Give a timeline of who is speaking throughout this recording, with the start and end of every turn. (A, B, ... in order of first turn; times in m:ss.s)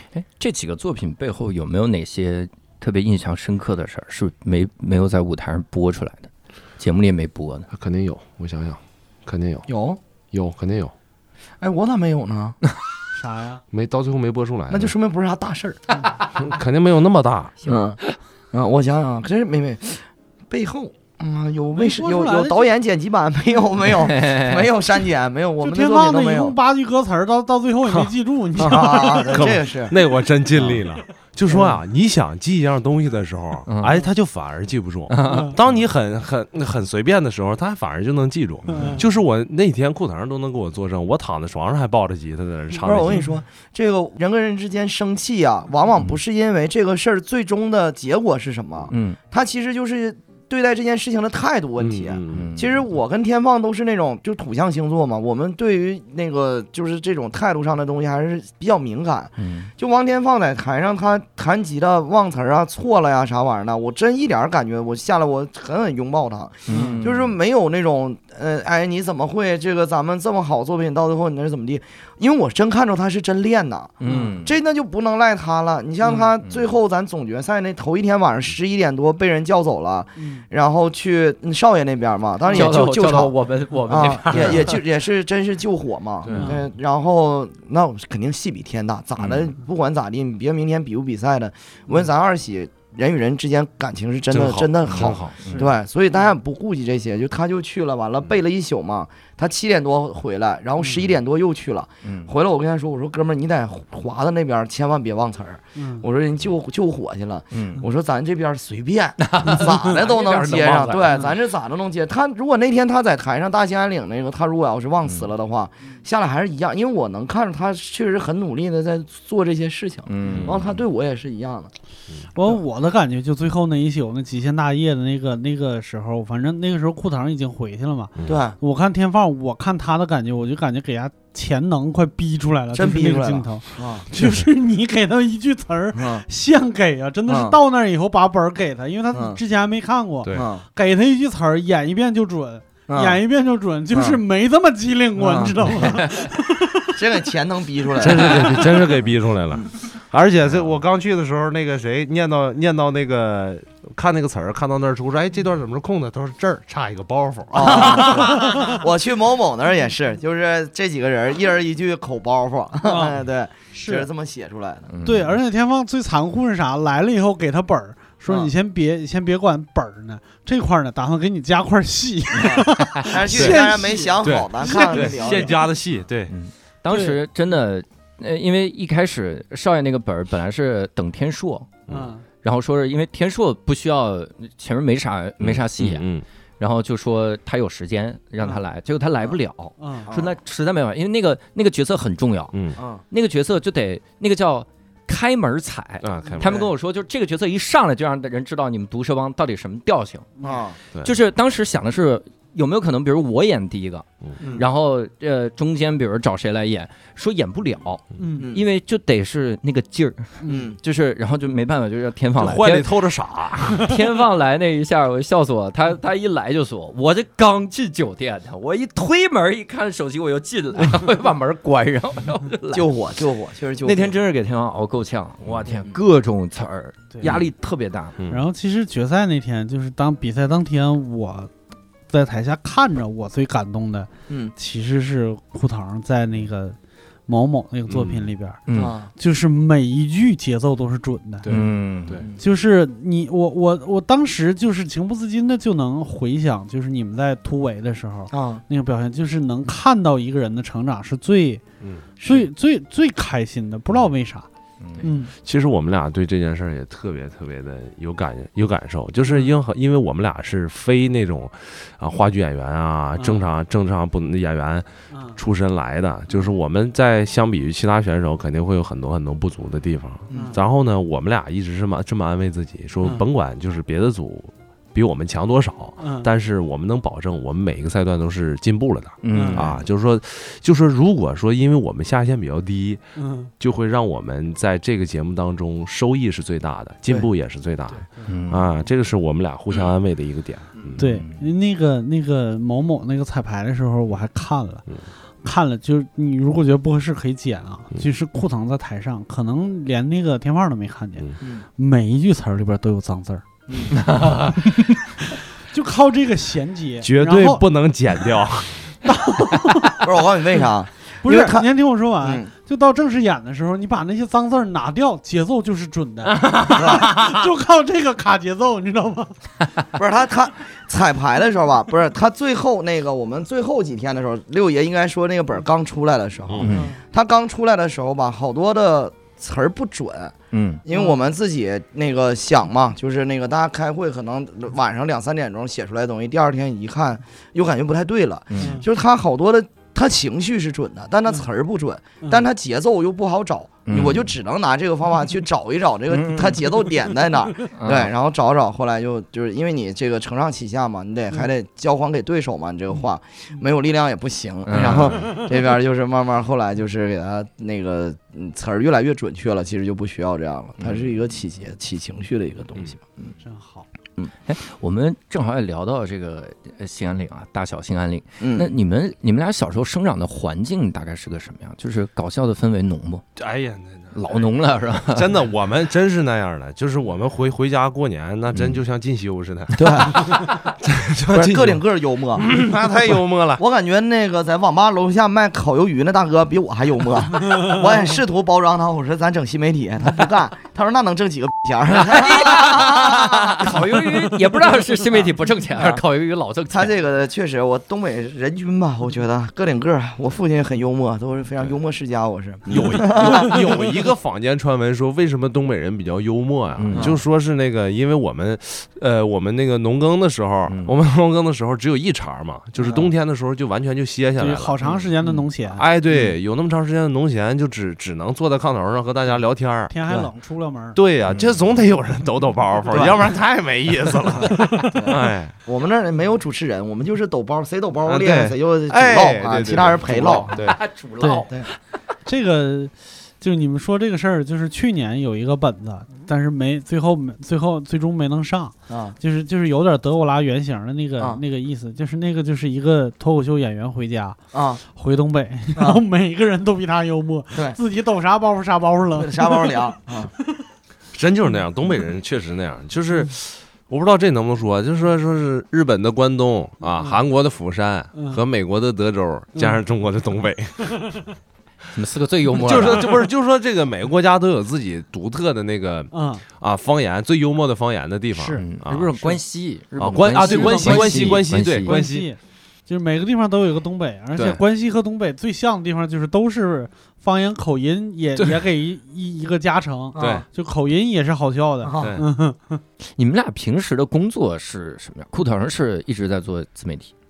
0:00.1-0:07.7 A
0:07.7-0:09.7 B
0:09.7-0:10.0 C
0:10.3-0:10.9 B
0:11.6-0:12.6 C
0:13.1-0:13.6 D
0:13.7-0:14.9 B
0:14.7-0:16.1 C
0:16.3-0:17.6 B
0:17.6-0:18.2 A
0:17.6-0:18.0 C
0:18.5-0:26.6 C
0:21.7-0:22.6 D
0:24.0-0:24.7 A
0:25.6-0:29.5 D
0:28.6-0:29.9 C
0:29.3-0:43.2 B
0:31.5-0:31.8 C
0:33.7-0:34.0 A
0:35.1-0:35.6 A
0:35.2-0:35.6 D
0:38.7-0:39.0 D
0:42.8-1:23.3 C
0:48.9-0:49.2 A
0:51.8-0:52.6 B
0:52.3-0:52.8 A
0:59.4-0:59.7 A
1:06.7-1:07.3 A
1:06.7-1:07.0 D
1:14.0-1:14.5 A
1:14.0-1:14.4 D
1:16.4-1:16.6 A
1:20.2-1:20.4 D
1:22.5-1:24.7 A
1:23.8-2:01.7 C
1:26.2-1:26.6 B
1:29.2-1:29.5 B
1:34.3-1:35.4 B
1:34.9-1:35.7 A
1:40.8-1:41.1 D
1:42.0-1:42.3 A
1:45.8-1:46.0 D
1:47.5-1:47.8 A
1:49.2-1:51.2 A
2:00.1-2:00.7 A
2:02.3-2:27.0 D
2:08.2-2:08.6 C
2:12.7-2:14.1 C
2:14.1-2:14.5 B
2:15.9-2:16.2 C
2:17.3-2:17.6 C
2:19.1-2:19.4 C
2:20.3-2:20.6 C
2:22.9-2:23.2 C
2:23.9-2:24.2 C
2:25.2-2:26.0 C
2:26.9-2:28.7 C
2:28.0-2:38.5 B
2:37.5-2:44.9 C
2:37.7-2:38.8 D
2:42.8-2:43.2 D
2:43.7-2:44.1 D
2:44.9-2:45.4 A
2:45.0-2:55.5 D
2:48.3-2:48.5 C
2:52.4-2:55.5 C
2:53.3-2:53.6 B
2:54.2-2:56.3 B
2:56.3-3:01.8 A
2:56.9-2:57.2 D
3:01.9-3:02.1 B
3:01.9-3:02.2 D
3:02.4-3:06.1 A
3:05.4-3:06.2 B
3:06.6-3:12.6 A
3:09.8-3:10.1 D
3:10.0-3:10.3 C
3:12.5-3:12.8 B
3:12.8-3:13.0 C
3:13.1-3:20.3 A
3:16.0-3:16.5 B
3:16.4-3:16.7 C
3:20.4-3:20.6 D
3:20.4-3:20.8 C
3:21.0-3:32.9 A
3:24.4-3:24.6 C
3:28.2-3:28.5 D
3:28.4-3:28.6 C
3:30.4-3:30.8 C
3:32.4-3:33.9 B
3:33.7-3:42.9 A
3:42.7-3:44.2 C
3:43.8-3:48.2 A
3:47.1-3:47.4 D
3:48.2-3:48.5 B
3:48.3-3:51.5 D
3:52.1-3:56.8 D
3:57.3-3:58.6 D
3:57.9-3:58.3 B
3:58.7-3:58.9 A
3:58.7-3:59.1 C
3:59.2-4:01.5 D
4:01.4-4:02.3 B
4:01.5-4:02.3 A
4:02.4-4:11.6 D
4:08.3-4:08.6 C
4:11.8-4:12.1 B
4:12.2-4:14.5 D
4:14.8-4:15.1 A
4:15.0-4:15.3 D
4:15.4-4:43.0 B
4:19.2-4:19.6 D
4:23.2-4:23.4 D
4:25.1-4:25.4 D
4:30.3-4:30.6 C
4:30.3-4:30.6 D
4:36.0-4:36.3 D
4:39.2-4:39.6 A
4:39.3-4:39.6 D
4:43.2-4:43.5 D
4:43.6-4:51.2 B
4:48.2-4:48.7 A
4:51.0-4:54.8 D
4:51.0-4:51.4 A
4:55.4-5:07.6 D
5:03.7-5:03.9 C
5:04.0-5:04.4 A
5:07.0-5:09.0 B
5:09.0-5:10.1 D
5:10.0-5:11.7 C
5:11.2-5:19.3 D
5:12.2-5:12.5 C
5:16.7-5:17.1 C
5:19.9-5:30.3 C
5:26.5-5:26.8 B
5:26.6-5:26.9 A
5:26.7-5:27.0 D
5:30.5-5:30.8 A
5:30.8-6:03.3 C
5:30.9-5:31.2 D
5:38.5-5:38.8 A
5:38.6-5:38.8 D
5:43.8-5:44.3 A
5:46.1-5:46.6 A
5:47.7-5:48.1 A
5:54.6-5:55.2 A
6:00.8-6:01.1 A
6:03.4-6:03.8 D
6:04.4-6:13.2 A
6:08.4-6:08.7 C
6:13.4-6:14.5 B
6:14.1-6:15.3 A
6:15.1-6:21.8 B
6:19.8-6:20.5 C
6:21.3-6:22.6 C
6:22.4-6:23.6 B
6:23.6-6:33.8 C
6:31.9-6:36.9 A
6:36.7-6:43.6 C
6:42.7-6:54.8 B
6:46.8-6:47.2 A
6:46.9-6:47.2 C
6:50.7-6:50.9 A
6:52.8-6:53.1 C
6:54.4-6:55.8 D
6:54.8-6:55.1 C
6:55.7-6:59.9 B
6:56.1-6:56.3 C
6:59.9-7:01.0 D
7:00.9-7:05.5 B
7:02.9-7:03.2 C
7:04.9-7:10.5 C
7:08.0-7:10.8 B
7:10.5-7:11.8 A
7:11.2-7:11.4 D
7:12.2-7:29.8 D
7:18.9-7:19.2 C
7:21.2-7:21.4 C
7:24.5-7:24.8 C
7:25.7-7:26.0 C
7:27.5-7:27.8 C
7:29.1-7:30.3 C
7:31.1-7:41.2 B
7:38.1-7:38.4 D
7:41.9-7:43.1 A
7:42.6-7:49.3 B
7:46.1-7:46.4 D
7:48.3-7:48.6 D
7:48.6-7:52.0 A
7:50.0-7:52.3 B
7:50.4-8:02.8 D
7:54.3-7:54.6 B
7:58.4-7:58.6 B
8:00.1-8:00.4 C
8:00.2-8:00.4 B
8:01.8-8:02.2 C
8:02.0-8:02.3 B
8:03.2-8:07.1 A